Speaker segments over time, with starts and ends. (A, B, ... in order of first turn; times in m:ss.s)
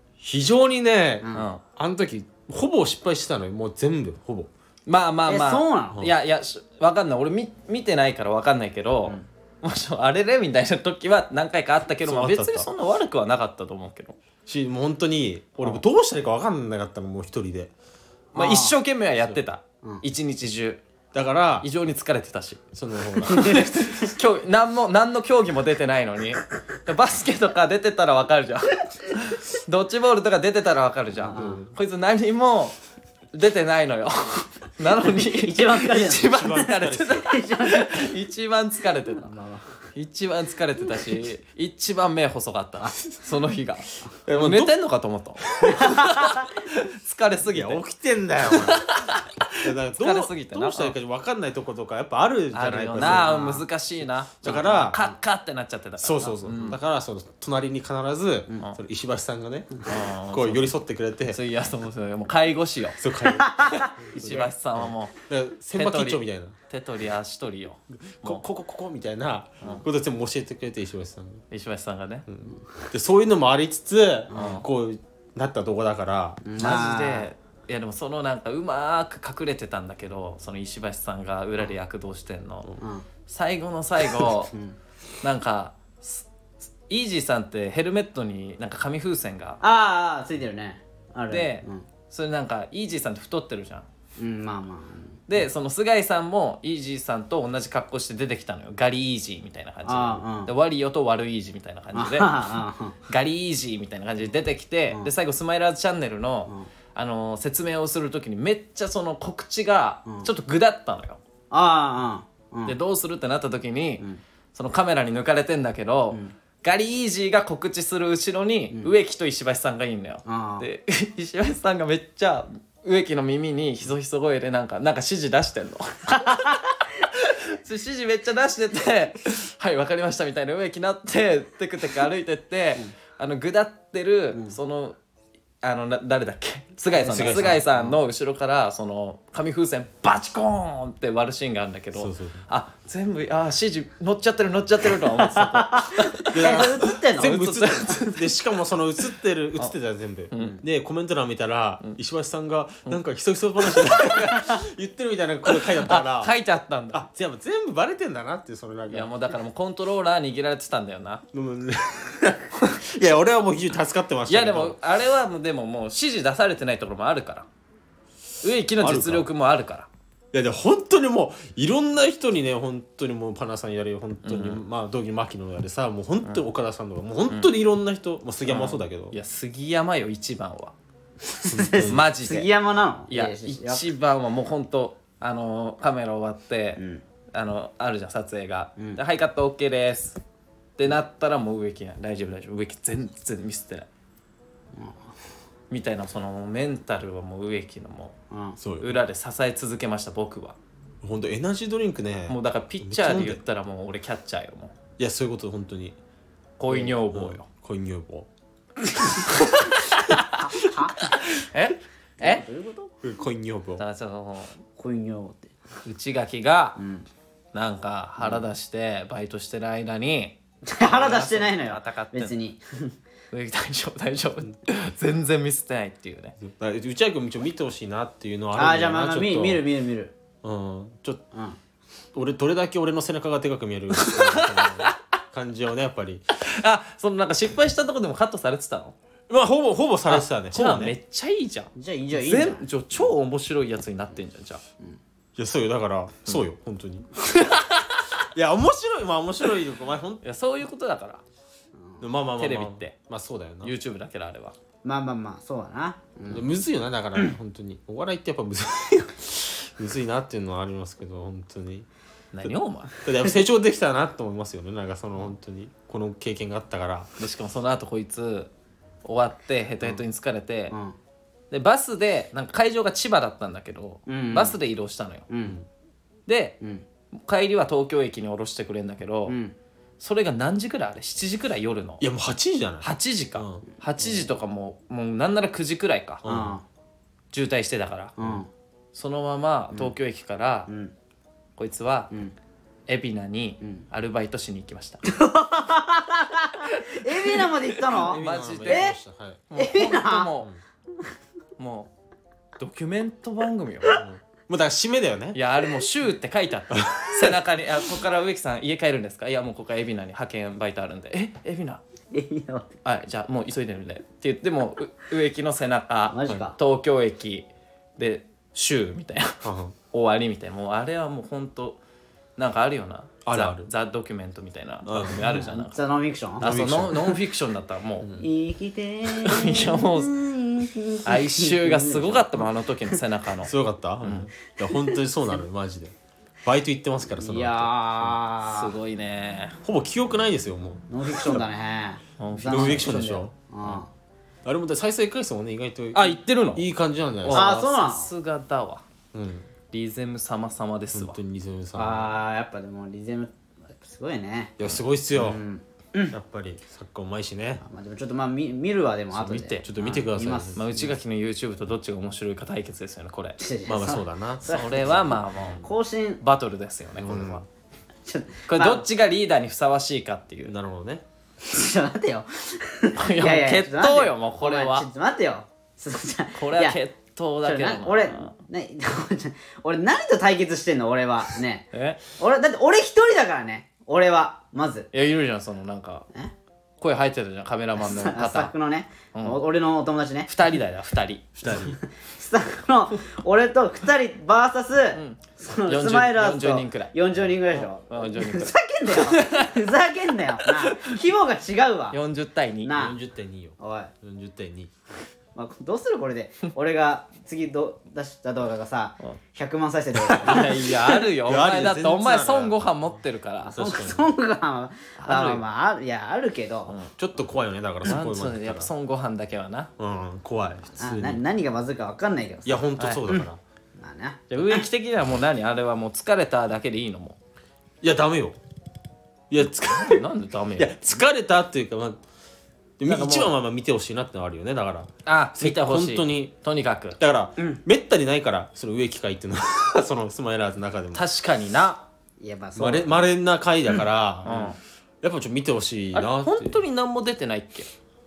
0:00.2-0:04.5 A
0:01.2-0:01.5 B
0:01.3-0:01.6 C
0:04.9-0:14.2 C
0:05.3-0:06.0 B
0:12.0-0:12.7 A
0:14.5-0:17.7 A
0:18.4-0:18.8 B
0:18.4-0:20.8 C
0:21.1-0:21.7 A
0:21.6-0:22.7 C
0:22.7-0:23.6 A
0:23.2-0:32.8 C
0:23.3-0:23.6 B
0:31.2-0:31.6 B
0:31.4-0:31.7 A
0:33.3-0:39.3 C
0:35.0-0:38.1 B
0:36.3-0:37.2 A
0:39.2-0:39.7 B
0:40.0-0:47.8 C
0:44.3-0:44.7 A
0:45.6-0:46.5 B
0:47.5-0:48.9 A
0:48.4-0:51.0 C
0:49.6-0:53.4 A
0:52.5-0:56.8 C
0:53.0-0:53.6 B
0:54.4-0:55.0 A
0:56.0-1:01.4 A
0:59.9-1:00.7 C
1:01.3-1:05.2 C
1:03.0-1:06.6 A
1:03.2-1:03.9 B
1:05.8-1:08.4 C
1:08.2-1:11.4 A
1:11.5-1:12.3 C
1:12.3-1:16.6 A
1:14.3-1:14.6 B
1:14.3-1:14.6 C
1:16.4-1:17.3 B
1:16.6-1:22.7 C
1:22.8-1:23.0 B
1:23.3-1:24.5 C
1:25.2-1:26.2 C
1:26.9-1:29.6 C
1:29.6-1:31.9 B
1:31.3-1:33.9 C
1:34.2-1:35.2 B
1:35.3-1:42.5 C
1:39.9-1:40.5 B
1:41.9-1:43.0 B
1:43.1-1:51.2 C
1:51.5-1:52.8 B
1:52.7-2:15.0 C
2:00.3-2:00.7 B
2:06.2-2:06.5 B
2:15.6-2:28.3 C
2:17.0-2:18.0 B
2:17.0-2:17.6 A
2:22.0-2:22.5 A
2:25.2-2:27.4 B
2:26.3-2:36.3 A
2:30.3-2:30.6 C
2:33.8-2:34.4 C
2:35.8-2:37.1 C
2:36.9-2:39.1 A
2:38.9-2:41.2 C
2:41.3-2:44.8 A
2:44.3-2:47.5 C
2:48.4-2:49.9 C
2:48.8-2:49.3 A
2:50.3-2:59.2 A
2:54.2-2:54.6 C
2:58.5-3:00.7 C
3:01.3-3:03.9 B
3:01.4-3:02.1 A
3:01.8-3:02.5 C
3:03.1-3:06.8 C
3:06.8-3:07.0 B
3:07.3-3:10.2 C
3:10.8-3:13.9 C
3:15.7-3:18.2 C
3:18.3-3:18.6 B
3:18.6-3:19.0 A
3:18.8-3:20.6 C
3:21.0-3:23.4 A
3:22.3-3:24.8 C
3:25.0-3:26.0 A
3:26.6-3:27.5 C
3:26.7-3:28.3 A
3:29.3-3:30.5 C
3:30.4-3:31.1 B
3:31.0-3:32.4 C
3:32.2-3:32.9 B
3:33.0-3:33.8 A
3:33.8-3:34.6 C
3:34.8-3:35.5 B
3:35.8-3:36.8 C
3:36.8-3:37.1 B
3:37.5-3:42.4 C
3:38.2-3:38.4 B
3:40.7-3:42.9 B
3:43.3-3:46.4 C
3:46.4-3:49.7 A
3:48.6-3:50.1 B
3:50.4-3:51.2 A
3:51.3-3:51.6 B
3:52.1-3:56.3 A
3:54.0-3:55.0 C
3:56.4-3:59.0 C
3:59.3-4:01.0 A
4:00.1-4:04.6 C
4:01.8-4:02.6 B
4:05.4-4:07.1 A
4:07.2-4:08.1 C
4:08.3-4:10.2 A
4:10.2-4:11.2 C
4:11.8-4:12.0 B
4:12.0-4:13.7 A
4:12.4-4:13.0 C
4:13.6-4:14.6 C
4:14.8-4:16.5 B
4:16.3-4:21.9 A
4:22.3-4:23.0 C
4:23.0-4:27.1 A
4:27.2-4:28.5 C
4:29.0-4:30.8 C
4:30.7-4:31.0 B
4:31.5-4:35.3 C
4:34.1-4:34.6 B
4:35.3-4:35.6 B
4:36.3-4:36.6 C
4:37.1-4:39.4 C
4:39.3-4:39.6 B
4:40.0-4:42.0 C
4:42.0-4:43.6 A
4:42.8-4:46.2 C
4:46.2-4:46.6 A
4:46.2-4:46.6 B
4:47.3-4:48.2 C
4:48.2-4:48.5 B
4:48.9-4:50.7 C
4:50.7-4:50.9 B
4:51.6-4:52.1 C
4:52.9-4:55.0 C
4:55.1-4:59.0 B
4:57.0-4:58.9 C
4:57.9-4:59.4 A
4:59.5-5:00.5 C
4:59.6-5:00.3 B
5:01.6-5:01.9 C
5:02.6-5:04.0 C
5:03.9-5:05.4 A
5:05.4-5:11.8 C
5:06.7-5:07.4 A
5:12.1-5:12.7 B
5:12.8-5:21.8 C
5:16.1-5:16.6 B
5:19.4-5:19.8 A
5:22.4-5:25.8 C
5:23.2-5:23.7 A
5:24.8-5:25.4 A
5:25.2-5:26.4 B
5:26.4-5:28.1 C
5:26.4-5:27.2 A
5:28.0-5:28.3 A
5:28.2-5:32.5 B
5:29.2-5:30.2 C
5:31.0-5:34.3 C
5:33.4-5:35.9 A
5:34.7-5:35.0 B
5:36.4-5:38.2 A
5:37.2-5:38.8 B
5:38.5-5:39.6 C
5:39.6-5:41.4 A
5:40.9-5:43.9 B
5:42.2-5:43.0 C
5:42.4-5:43.3 A
5:44.4-5:47.5 A
5:45.9-5:46.7 C
5:47.2-5:48.8 C
5:47.3-5:48.1 B
5:49.1-5:49.5 A
5:49.7-5:51.2 C
5:50.9-5:52.2 A
5:51.8-5:54.6 B
5:54.6-5:55.4 A
5:55.1-5:56.2 B
5:56.1-5:57.6 A
5:57.6-6:00.8 B
5:59.2-5:59.7 C
5:59.4-6:00.7 A
6:00.6-6:03.4 C
6:03.4-6:06.2 B
6:03.7-6:04.6 A
6:04.5-6:05.7 C
6:06.2-6:07.4 C
6:07.0-6:07.4 A
6:08.1-6:08.8 B
6:08.5-6:10.5 C
6:10.4-6:11.0 A
6:11.4-6:16.8 B
6:13.0-6:14.9 C
6:16.4-6:18.3 C
6:17.4-6:24.9 B
6:21.7-6:22.0 C
6:24.9-6:26.1 C
6:26.8-6:28.5 C
6:27.8-6:30.3 B
6:29.1-6:29.4 C
6:30.3-6:31.3 C
6:31.4-6:31.8 A
6:31.5-6:42.0 B
6:35.0-6:37.0 C
6:37.5-6:39.5 C
6:40.5-6:41.0 C
6:41.9-6:42.7 C
6:42.6-6:43.0 B
6:42.7-6:44.7 A
6:43.6-6:43.9 B
6:45.4-6:50.6 B
6:50.2-6:53.6 C
6:50.2-6:52.6 A
6:53.4-6:56.8 B
6:53.5-6:54.1 A
6:55.0-6:55.4 C
6:57.0-6:58.7 A
6:57.8-6:59.7 C
6:59.8-7:01.2 A
7:00.8-7:03.3 B
7:02.5-7:03.4 A
7:02.8-7:03.1 C
7:03.8-7:04.6 B
7:04.3-7:07.2 C
7:07.8-7:08.4 A
7:09.3-7:12.0 A
7:09.7-7:10.8 C
7:12.8-7:16.3 A
7:12.8-7:13.3 C
7:15.1-7:17.0 C
7:17.0-7:21.0 A
7:20.9-7:21.9 C
7:22.2-7:23.0 B
7:22.6-7:26.6 A
7:24.2-7:24.6 C
7:25.9-7:27.7 C